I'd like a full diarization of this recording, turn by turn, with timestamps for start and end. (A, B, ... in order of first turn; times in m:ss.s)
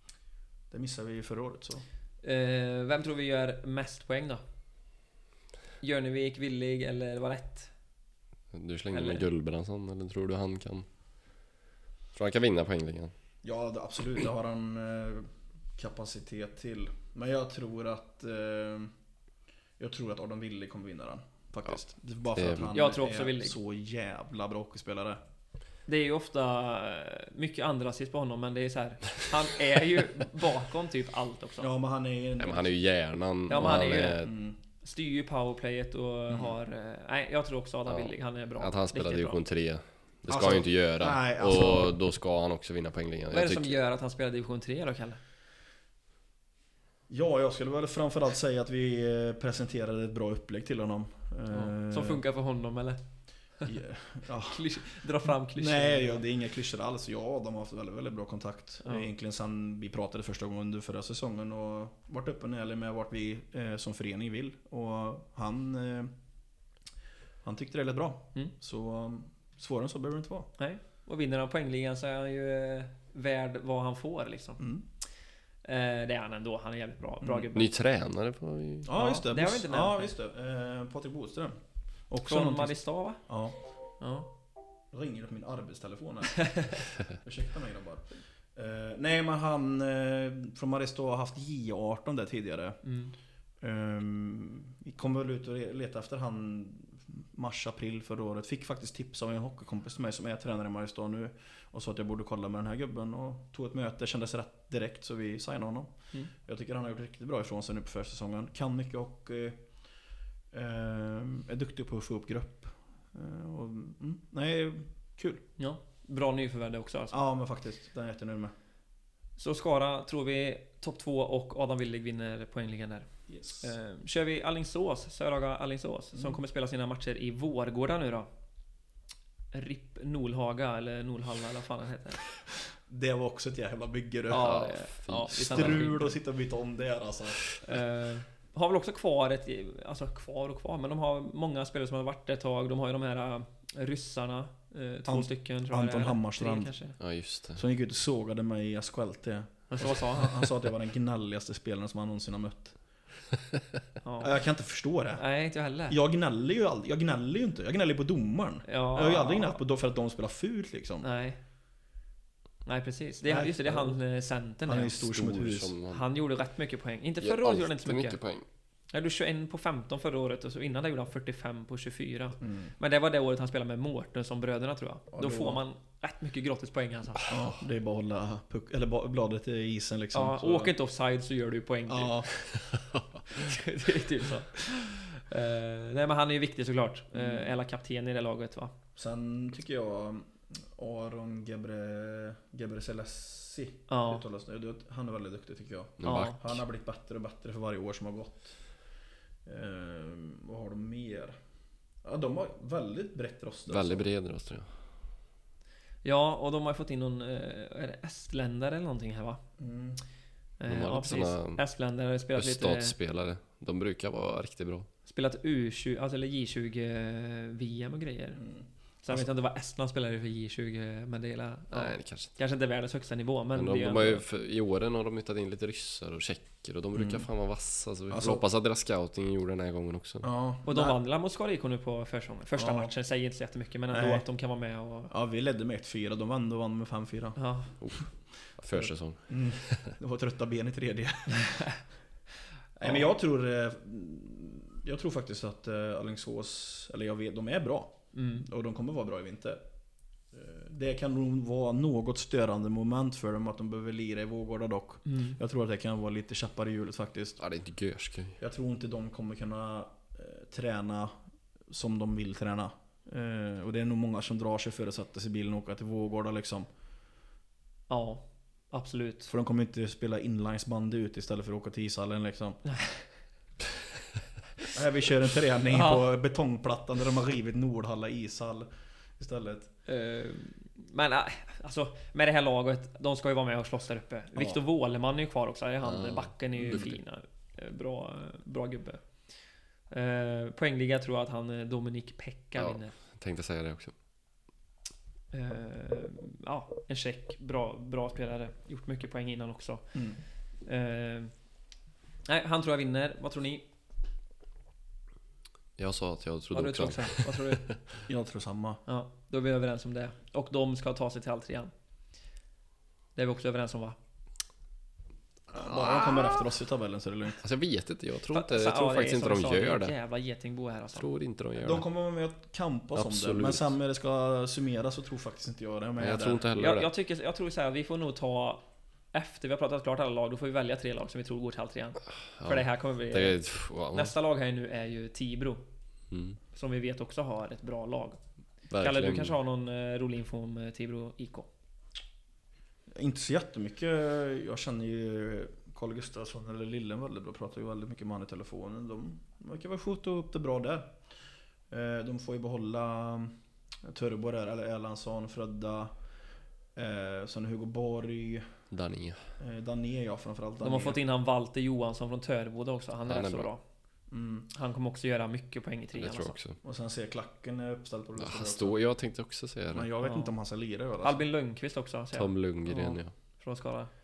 0:00.7-0:01.8 A
0:02.2-0:04.4 B
0:05.8-0:07.7 B
0:08.5-0:10.9 C
0:08.9-0:09.2 B
0:12.2-0:13.1 C
0:13.4-0:18.9 A
0:19.8-0:25.2 A
0:22.4-0:22.7 C
0:22.7-0:23.6 B
0:25.9-0:31.7 B
0:31.6-0:32.7 A
0:32.4-0:34.3 C
0:33.5-0:34.3 B
0:33.5-0:34.6 A
0:34.8-0:39.4 B
0:36.3-0:36.6 A
0:37.9-0:43.8 C
0:40.3-0:42.0 A
0:43.3-0:45.2 B
0:47.1-0:52.2 A
0:51.5-0:53.0 B
0:53.6-1:06.1 A
0:54.4-0:56.2 B
1:07.4-1:10.5 A
1:10.6-1:14.6 B
1:15.6-1:17.7 B
1:17.2-1:17.5 A
1:17.5-1:18.9 C
1:18.8-1:22.8 A
1:18.9-1:20.1 B
1:22.2-1:23.2 B
1:23.3-1:23.6 A
1:24.0-1:24.3 B
1:24.9-1:32.8 A
1:26.4-1:26.8 B
1:32.8-1:33.1 B
1:33.6-1:49.6 A
1:50.5-1:55.4 A
1:55.6-1:57.2 B
1:57.1-1:58.5 A
1:59.4-2:03.1 B
2:03.3-2:03.7 A
2:03.6-2:08.3 B
2:09.5-2:12.2 B
2:12.9-2:14.6 A
2:14.3-2:16.2 B
2:14.4-2:15.9 C
2:15.3-2:17.6 A
2:17.6-2:27.0 B
2:25.1-2:26.7 A
2:27.0-2:27.6 C
2:27.6-2:32.8 A
2:29.7-2:30.5 B
2:34.0-2:34.3 B
2:34.2-2:35.2 A
2:35.2-2:36.0 B
2:35.9-2:41.1 A
2:38.7-2:39.6 B
2:41.0-2:41.4 B
2:42.7-2:45.0 B
2:43.2-2:44.0 A
2:44.7-2:45.7 A
2:45.0-2:46.0 C
2:45.9-2:48.2 B
2:47.2-2:48.5 C
2:48.9-2:57.3 B
2:52.4-2:52.7 A
2:55.1-2:55.6 A
2:57.3-3:00.7 A
3:00.1-3:02.4 B
3:01.9-3:02.3 A
3:02.7-3:03.0 C
3:03.3-3:08.8 B
3:07.1-3:07.5 A
3:09.0-3:18.6 A
3:13.9-3:14.2 B
3:16.0-3:16.6 C
3:16.0-3:16.4 B
3:19.4-3:21.4 A
3:22.0-3:24.1 A
3:23.7-3:24.7 C
3:26.0-3:29.4 B
3:29.6-3:30.0 A
3:30.6-3:33.0 B
3:30.7-3:31.6 C
3:32.4-3:34.9 C
3:35.1-3:38.4 B
3:38.4-3:39.3 A
3:39.0-3:44.2 B
3:41.7-3:42.3 C
3:43.6-3:50.3 C
3:46.9-3:47.3 A
3:48.1-3:48.4 A
3:50.2-3:51.0 A
3:50.7-3:55.1 B
3:52.6-3:52.9 A
3:53.9-3:54.2 A
3:55.1-3:57.4 A
3:57.4-3:57.7 B
3:58.6-4:00.0 C
3:58.7-4:01.7 A
4:02.8-4:09.6 A
4:08.1-4:08.4 B
4:10.3-4:17.4 A
4:15.1-4:15.4 B
4:17.4-4:18.4 C
4:18.4-4:21.1 A
4:21.7-4:26.7 A
4:27.9-4:29.3 B
4:29.3-4:32.6 A
4:32.7-4:33.0 B
4:34.7-4:39.7 A
4:35.7-4:36.1 B
4:39.9-4:49.0 B
4:45.8-4:46.9 C
4:49.9-4:52.9 B
4:52.6-4:53.9 C
4:55.3-5:00.0 B
4:59.9-5:00.2 A
5:00.7-5:01.3 B
5:02.3-5:03.6 B
5:05.8-5:07.8 C
5:06.5-5:07.7 B
5:08.1-5:08.8 A
5:08.9-5:11.7 B
5:13.2-5:14.0 B
5:15.5-5:17.4 A
5:17.4-5:19.9 C
5:18.3-5:21.1 B
5:21.0-5:21.8 C
5:21.6-5:26.4 A
5:23.0-5:23.7 C
5:26.0-5:26.9 C
5:26.6-5:28.6 B
5:29.1-5:33.4 B
5:32.4-5:34.1 C
5:33.9-5:35.6 B
5:36.1-5:36.4 C
5:36.5-5:38.2 B
5:38.7-5:39.4 C
5:38.8-5:41.5 B
5:42.9-5:51.0 A
5:51.7-5:56.0 A
5:56.8-5:58.5 A
5:58.7-5:59.2 C
5:59.4-6:01.0 A
6:00.6-6:03.6 B
6:03.1-6:03.5 C
6:04.1-6:04.5 A
6:04.5-6:06.4 B
6:06.0-6:06.6 C
6:06.6-6:08.8 A
6:08.2-6:09.9 C
6:09.7-6:11.2 A
6:10.0-6:10.3 B
6:11.0-6:13.9 B
6:12.1-6:13.1 C